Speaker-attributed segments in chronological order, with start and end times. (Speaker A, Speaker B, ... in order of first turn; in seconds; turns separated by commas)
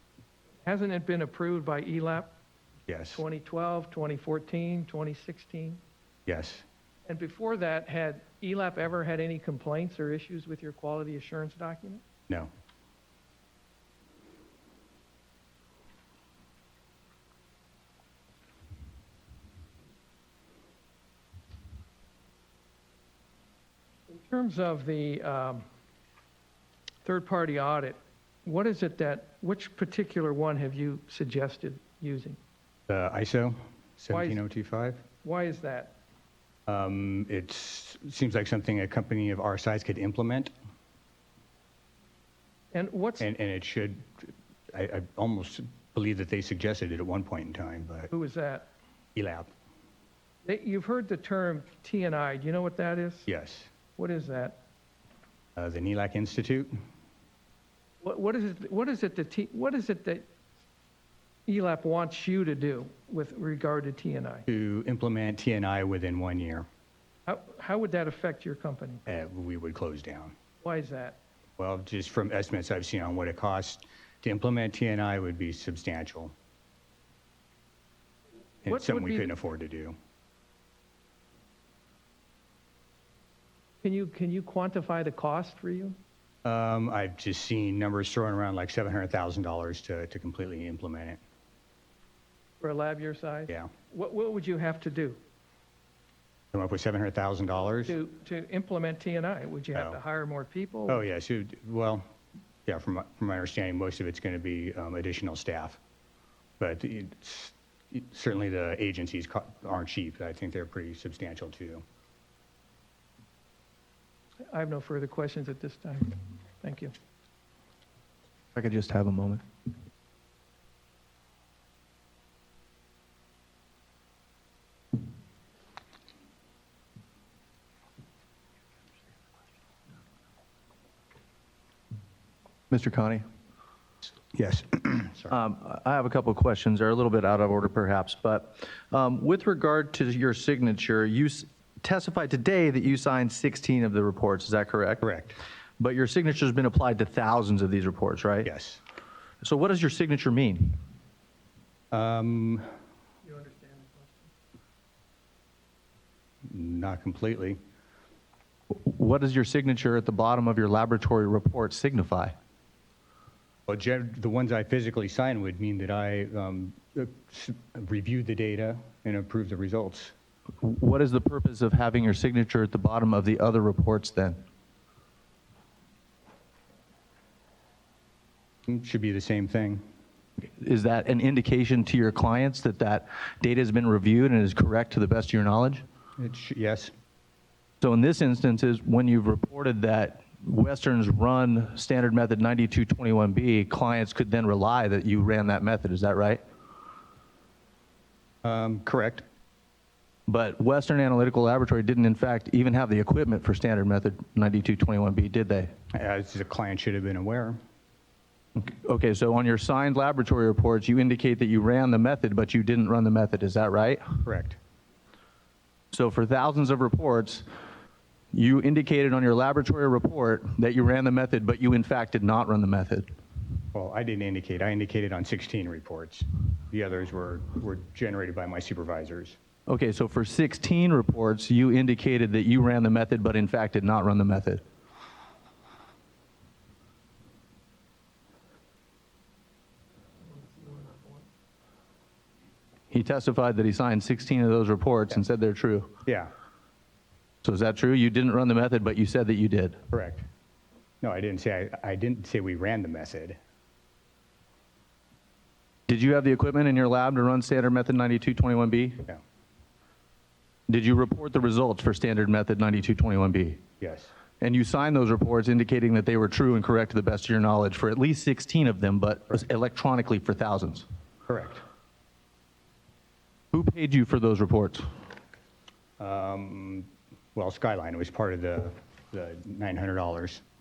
Speaker A: 0.6-2.3, Speaker B: 2.9-3.2, Speaker A: 3.1-5.8, Speaker B: 6.2-6.6, Speaker A: 7.0-12.0, Speaker A: 24.1-25.6, Speaker A: 27.0-32.4, Speaker B: 32.9-35.0, Speaker A: 34.1-34.4, Speaker A: 35.2-36.0, Speaker B: 36.7-40.5, Speaker A: 42.7-43.3, Speaker B: 43.2-48.1, Speaker A: 48.1-48.7, Speaker B: 49.1-49.5, Speaker A: 50.4-53.3, Speaker B: 53.3-53.7, Speaker A: 54.0-54.6, Speaker B: 55.5-56.7, Speaker A: 58.0-60.3, Speaker A: 61.5-64.5, Speaker B: 64.5-66.7, Speaker A: 67.3-69.0, Speaker B: 69.1-70.3, Speaker A: 70.6-71.2, Speaker B: 71.6-76.3, Speaker B: 78.6-80.0, Speaker A: 78.7-79.3, Speaker A: 83.8-86.0, Speaker B: 86.4-91.2, Speaker A: 92.6-95.2, Speaker B: 96.5-97.9, Speaker A: 97.8-101.1, Speaker B: 99.7-100.0, Speaker B: 100.9-102.1, Speaker B: 102.7-105.8, Speaker B: 106.6-111.8, Speaker A: 114.5-116.9, Speaker C: 118.5-119.4, Speaker C: 132.7-133.2, Speaker B: 134.0-135.4, Speaker C: 135.3-145.1, Speaker B: 145.0-145.4, Speaker C: 145.8-148.5, Speaker B: 148.4-148.8, Speaker C: 149.4-150.8, Speaker B: 151.9-152.7, Speaker A: 153.2-154.1, Speaker B: 156.4-157.6, Speaker C: 158.7-162.3, Speaker B: 163.7-170.1, Speaker C: 170.6-174.4, Speaker B: 178.7-179.8, Speaker C: 180.4-185.8, Speaker B: 186.2-186.9, Speaker C: 187.8-196.4, Speaker B: 198.4-199.2, Speaker C: 200.3-205.7, Speaker B: 205.9-207.6, Speaker C: 208.6-214.2, Speaker B: 214.2-214.6, Speaker C: 215.9-217.4, Speaker C: 218.3-223.1, Speaker B: 223.7-229.4, Speaker C: 229.7-234.6, Speaker A: 240.3-241.2, Speaker C: 242.9-245.9, Speaker B: 246.0-246.3, Speaker C: 247.4-249.8, Speaker B: 249.9-250.2, Speaker B: 251.0-253.4, Speaker C: 255.9-259.1, Speaker C: 260.7-263.6, Speaker B: 263.8-264.1, Speaker C: 264.4-270.9, Speaker B: 271.3-271.6, Speaker C: 273.5-274.8, Speaker B: 276.0-280.4